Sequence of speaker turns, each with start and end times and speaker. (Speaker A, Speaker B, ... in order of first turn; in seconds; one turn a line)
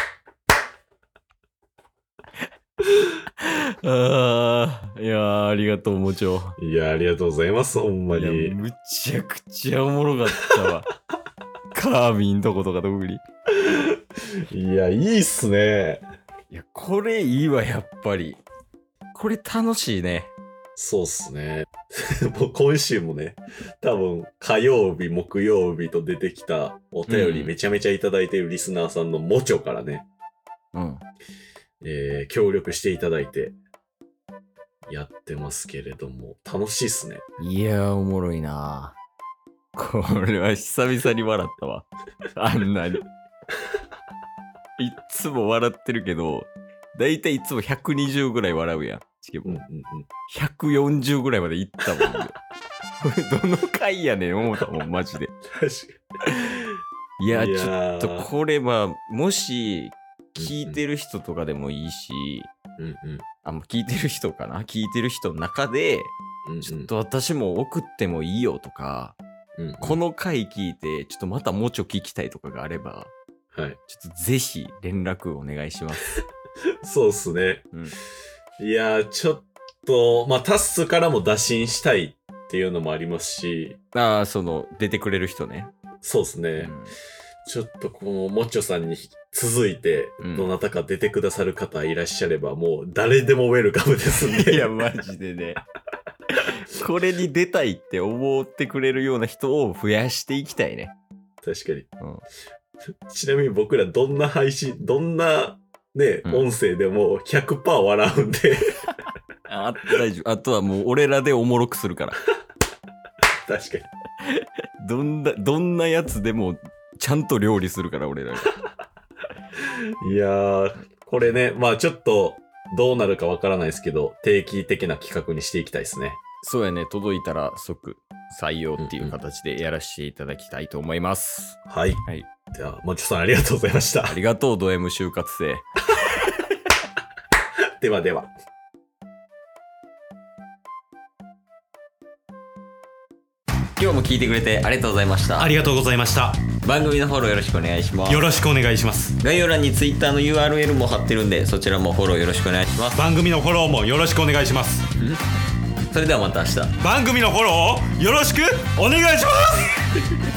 Speaker A: 3.2-6.6
Speaker B: 6.6-8.6
Speaker A: 8.1-10.9
Speaker A: 11.7-13.2
Speaker B: 13.6-16.0
Speaker A: 16.5-18.4
Speaker A: 19.1-20.3
Speaker B: 20.8-30.1
Speaker A: 27.1-27.5
Speaker A: 30.7-31.0
Speaker B: 31.8-33.5
Speaker B: 34.9-37.2
Speaker A: 37.4-39.0
Speaker A: 39.8-43.1
Speaker A: 44.8-49.6
Speaker B: 49.4-50.1
Speaker A: 50.3-52.4
Speaker A: 53.0-55.3
Speaker B: 55.5-56.0
Speaker A: 56.3-56.6
Speaker A: 57.2-62.5
Speaker B: 57.3-58.3
Speaker B: 60.4-60.8
Speaker B: 62.8-63.2
Speaker A: 63.4-66.1
Speaker B: 66.5-66.9
Speaker A: 66.6-69.2
Speaker B: 69.6-70.0
Speaker A: 69.8-73.1
Speaker B: 73.5-73.8
Speaker A: 73.9-76.2
Speaker B: 76.8-77.7
Speaker B: 78.6-83.8
Speaker A: 83.9-85.7
Speaker B: 86.0-86.7
Speaker A: 86.6-86.9
Speaker B: 87.5-94.7
Speaker A: 90.2-90.5
Speaker A: 94.2-95.6
Speaker A: 96.3-100.9
Speaker B: 101.4-101.9
Speaker B: 103.1-108.8
Speaker A: 109.5-112.2
Speaker B: 113.5-113.9
Speaker A: 114.8-118.5
Speaker B: 120.0-126.2
Speaker A: 126.4-132.3
Speaker B: 128.8-129.2
Speaker B: 131.7-134.2
Speaker A: 134.1-135.7
Speaker B: 137.8-138.3
Speaker A: 143.8-145.6
Speaker C: 145.4-146.4
Speaker A: 146.6-148.3
Speaker C: 148.1-149.2
Speaker A: 149.2-153.0
Speaker C: 152.9-154.8
Speaker A: 155.9-156.8
Speaker C: 156.8-159.8